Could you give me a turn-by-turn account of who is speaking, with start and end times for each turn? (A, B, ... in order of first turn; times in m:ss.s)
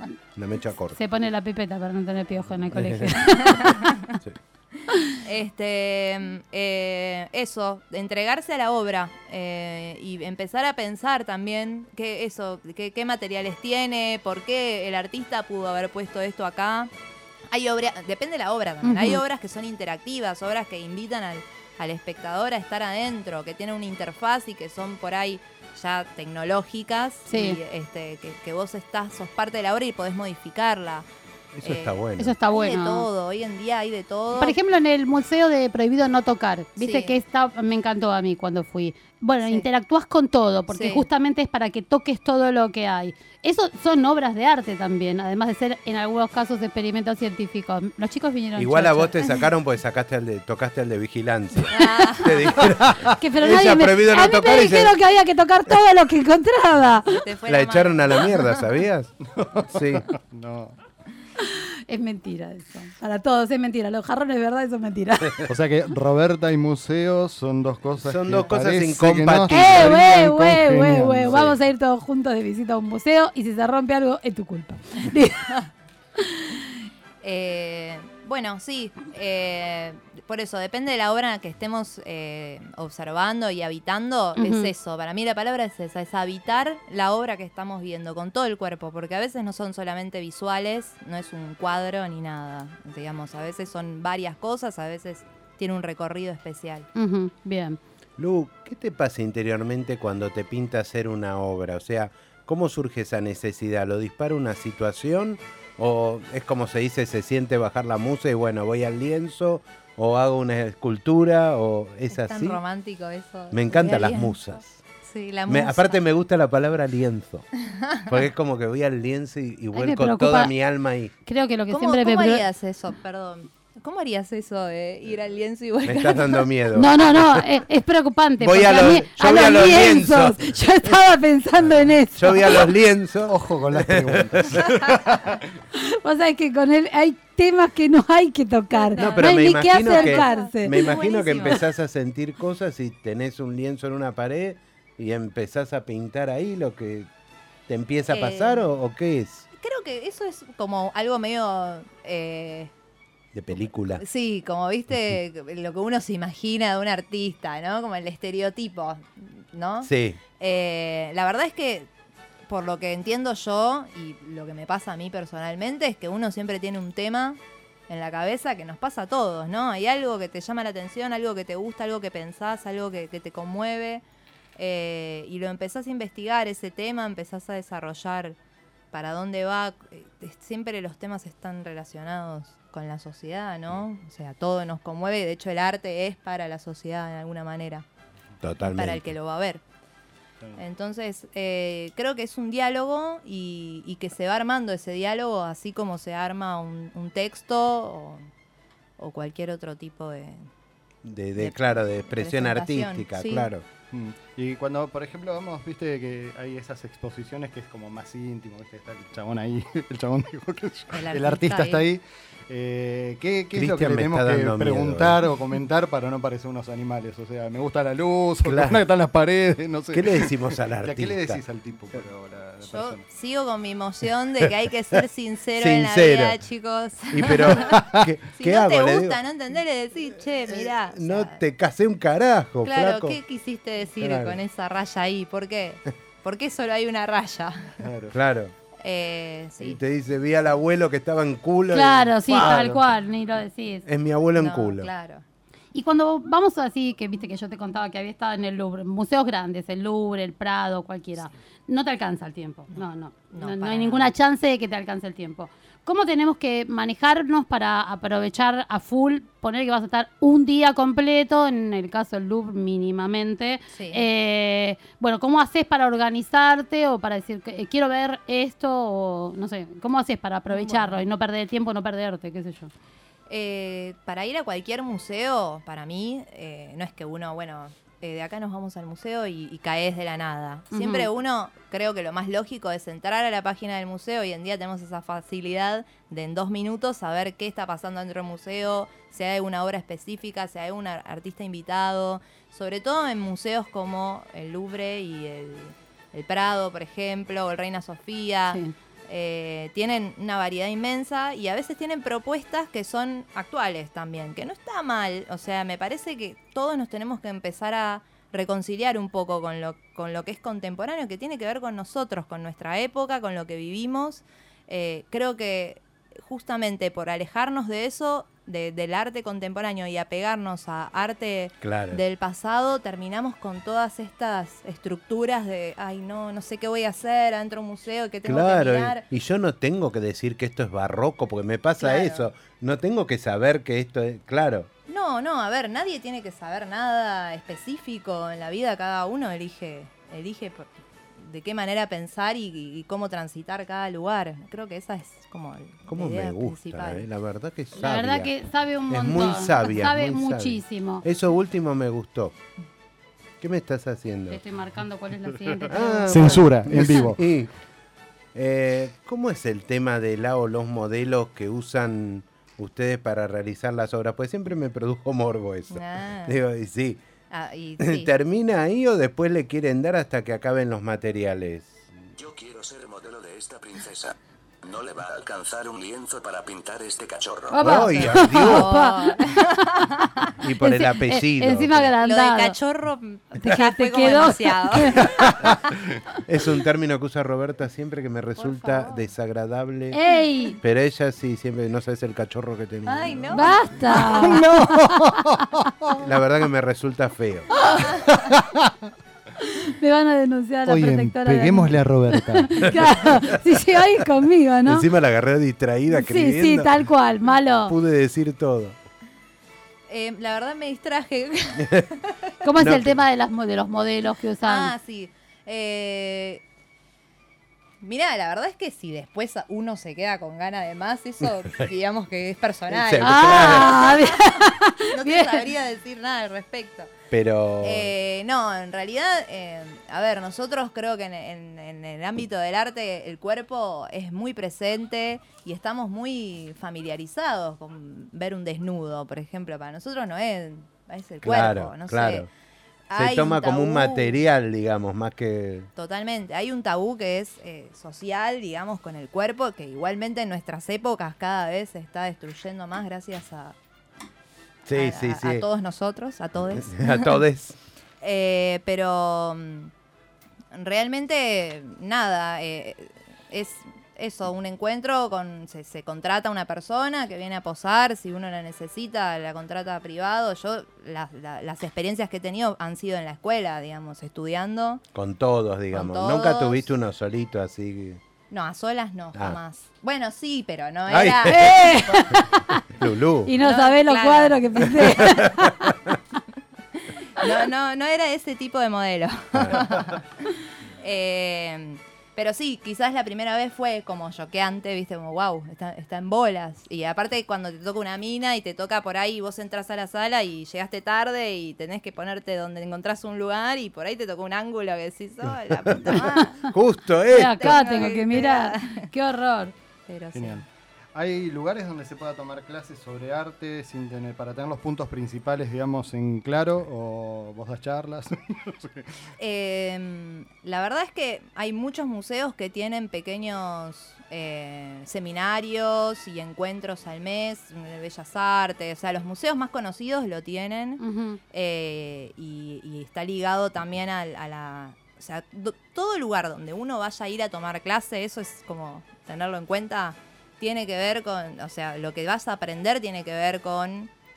0:00.3-0:01.0 A
0:00.9-0:03.9 B
0:02.7-0:03.2 A
0:03.5-0:03.9 C
0:05.2-0:16.9 C
0:17.5-0:31.0 C
0:18.8-0:19.2 B
0:27.3-0:27.6 B
0:31.6-0:32.3 A
0:31.6-0:34.6 C
0:32.2-0:33.0 B
0:34.4-0:49.3 B
0:36.8-0:37.1 C
0:40.7-0:41.1 C
0:48.6-0:55.0 A
0:51.7-0:52.6 C
0:53.2-0:57.1 B
0:57.0-0:58.6 C
0:57.4-0:59.1 A
0:59.3-1:00.8 D
0:59.7-1:00.1 A
1:01.4-1:05.5 B
1:05.5-1:11.5 D
1:08.0-1:10.2 A
1:09.5-1:15.5 B
1:11.3-1:11.5 A
1:17.2-1:36.9 C
1:24.4-1:24.7 B
1:37.0-1:37.8 B
1:38.2-1:52.6 A
1:52.1-1:54.4 C
1:53.5-1:54.8 A
1:55.0-1:56.0 C
1:55.5-1:57.5 A
1:58.0-2:01.1 A
1:59.7-2:00.5 B
2:01.2-2:02.4 B
2:01.7-2:06.5 C
2:05.8-2:07.6 A
2:06.7-2:12.7 B
2:08.4-2:11.0 A
2:12.2-2:14.8 A
2:13.2-2:15.4 D
2:15.8-2:20.9 B
2:18.7-2:21.6 C
2:19.0-2:27.1 A
2:27.7-2:29.4 A
2:28.1-2:28.6 C
2:29.5-2:32.7 C
2:33.3-2:34.0 A
2:33.9-2:41.9 C
2:39.8-2:40.2 A
2:42.5-2:54.0 C
2:54.6-2:58.4 C
2:58.9-3:07.8 C
3:08.4-3:09.1 A
3:08.6-3:09.6 C
3:10.6-3:18.2 C
3:19.0-3:20.5 C
3:21.0-3:23.6 A
3:21.4-3:23.5 C
3:23.9-3:43.0 D
3:30.9-3:31.8 C
3:33.5-3:35.2 A
3:38.4-3:38.8 A
3:39.9-3:41.4 A
3:42.6-3:47.8 C
3:45.6-3:46.4 A
3:47.1-3:49.2 A
3:47.7-3:48.1 D
3:48.4-3:51.4 C
3:50.4-3:53.2 A
3:52.6-3:57.8 C
3:54.0-3:54.4 A
3:57.8-3:58.2 D
3:58.1-3:58.5 A
3:58.8-3:59.8 C
3:59.6-4:02.8 A
4:01.7-4:03.8 B
4:03.8-4:04.9 A
4:04.4-4:05.2 C
4:05.7-4:32.7 B
4:13.3-4:14.1 C
4:23.7-4:24.0 C
4:30.5-4:31.0 C
4:33.3-5:29.0 C
4:40.7-4:41.1 B
5:21.6-5:22.0 A
5:28.2-5:34.7 A
5:31.8-5:32.2 C
5:34.9-5:47.0 C
5:45.9-5:48.3 A
5:47.7-5:51.0 B
5:48.9-5:52.3 A
5:53.4-5:54.4 A
5:54.3-5:57.0 B
5:55.7-5:57.5 A
5:56.1-5:57.2 D
5:58.3-6:07.0 A
6:05.7-6:06.4 C
6:07.3-6:08.1 C
6:07.8-6:11.9 A
6:12.2-6:17.7 E
6:17.5-6:19.7 B
6:17.6-6:18.8 A
6:17.6-6:20.3 C
6:20.4-6:21.9 A
6:20.6-6:22.6 B
6:22.0-6:25.3 C
6:23.4-6:25.1 B
6:26.2-6:30.0 A
6:28.4-6:29.0 C
6:29.9-6:30.6 B
6:30.6-6:33.6 A
6:32.8-6:34.2 C
6:33.3-6:34.9 B
6:34.0-6:35.9 D
6:36.0-6:37.5 A
6:37.6-6:37.9 B
6:38.2-6:38.7 D
6:39.4-6:44.9 B
6:40.6-6:42.8 D
6:44.6-6:46.7 A
6:45.9-6:47.7 B
6:47.6-6:48.8 A
6:49.9-6:52.2 C
6:52.4-6:54.7 B
6:52.6-6:53.0 A
6:54.4-6:56.4 C
6:57.8-7:06.9 C
7:02.7-7:03.8 A
7:03.0-7:05.4 B
7:07.1-7:07.9 A
7:07.6-7:22.3 C
7:21.2-7:22.3 A
7:22.9-7:24.2 C
7:22.9-7:25.7 A
7:25.8-7:33.6 C
7:34.7-7:35.4 A
7:34.7-7:37.2 C
7:36.4-7:37.6 A
7:38.0-7:39.7 C
7:40.5-7:54.8 C
7:54.9-7:58.0 A
7:55.7-7:56.6 C
7:58.3-8:01.5 C
8:00.8-8:01.6 A
8:01.3-8:02.6 B
8:02.7-8:03.3 A
8:03.2-8:05.7 B
8:03.4-8:05.2 C
8:04.8-8:05.9 A
8:06.8-8:10.1 C
8:09.4-8:09.6 A
8:10.8-8:26.5 C
8:25.5-8:27.8 A
8:27.1-8:29.5 B
8:27.1-8:28.9 C
8:29.9-8:30.4 C
8:30.1-8:30.4 D
8:30.9-8:38.9 D
8:39.2-9:03.9 C
8:50.8-8:51.2 B